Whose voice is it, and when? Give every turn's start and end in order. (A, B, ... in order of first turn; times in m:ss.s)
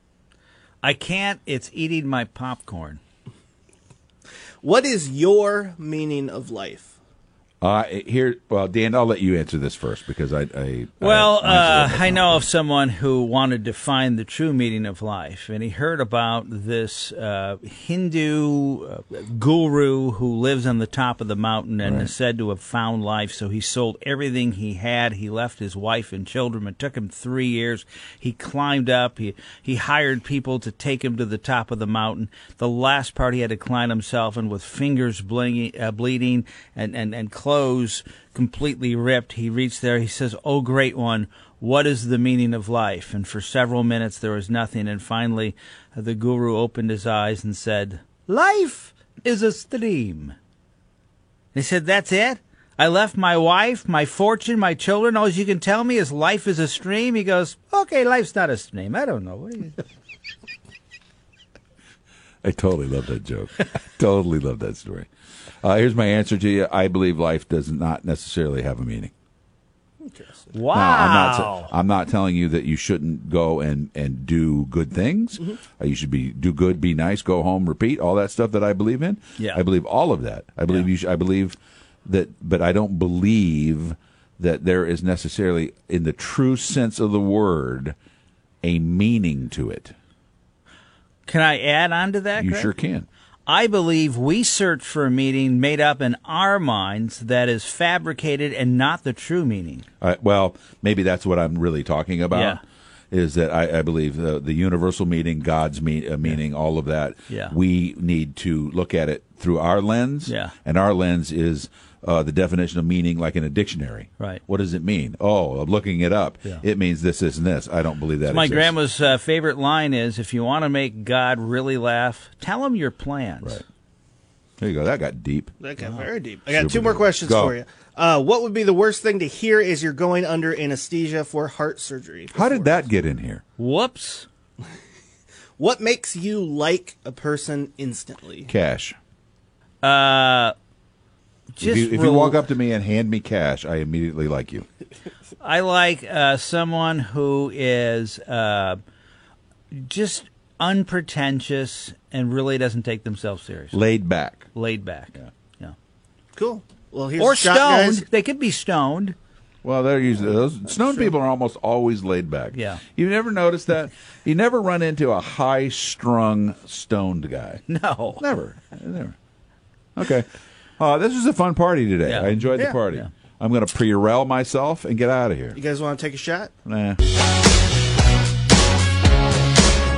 0:00.8-0:03.0 A
0:04.6-0:06.9 B
0:07.6-0:12.5 C
0:11.0-0:50.4 A
0:21.8-0:22.1 C
0:51.6-0:59.8 A
1:02.4-1:05.1 C
1:05.6-1:09.1 C
1:10.0-1:10.5 B
1:10.5-1:11.7 A
1:10.7-1:28.0 C
1:28.6-1:29.9 C
1:31.3-1:32.7 A
1:32.4-1:33.1 C
1:33.5-1:39.9 A
1:40.0-1:42.6 C
1:42.3-1:42.6 A
1:43.1-1:58.8 C
1:47.3-1:47.5 A
1:50.3-1:50.5 A
1:58.2-2:03.6 A
2:04.6-2:05.5 C
2:05.6-2:12.9 B
2:05.8-2:06.1 A
2:06.5-2:07.6 C
2:12.3-2:13.4 C
2:13.6-2:14.3 A
2:15.6-2:18.5 B
2:18.5-2:19.0 C
2:19.8-2:20.5 A
2:21.6-2:22.4 A
2:21.6-2:24.7 C
2:25.4-2:28.8 A
2:29.7-2:33.8 A
2:33.7-2:34.5 C
2:34.6-2:35.7 A
2:36.4-2:38.1 B
2:37.2-2:39.2 A
2:39.6-2:47.6 C
2:42.5-2:42.8 A
2:47.7-2:48.2 A
2:48.2-2:49.2 C
2:50.0-2:50.3 C
2:50.8-2:55.6 C
2:52.0-2:52.4 A
2:55.5-2:56.5 B
2:56.7-2:57.0 C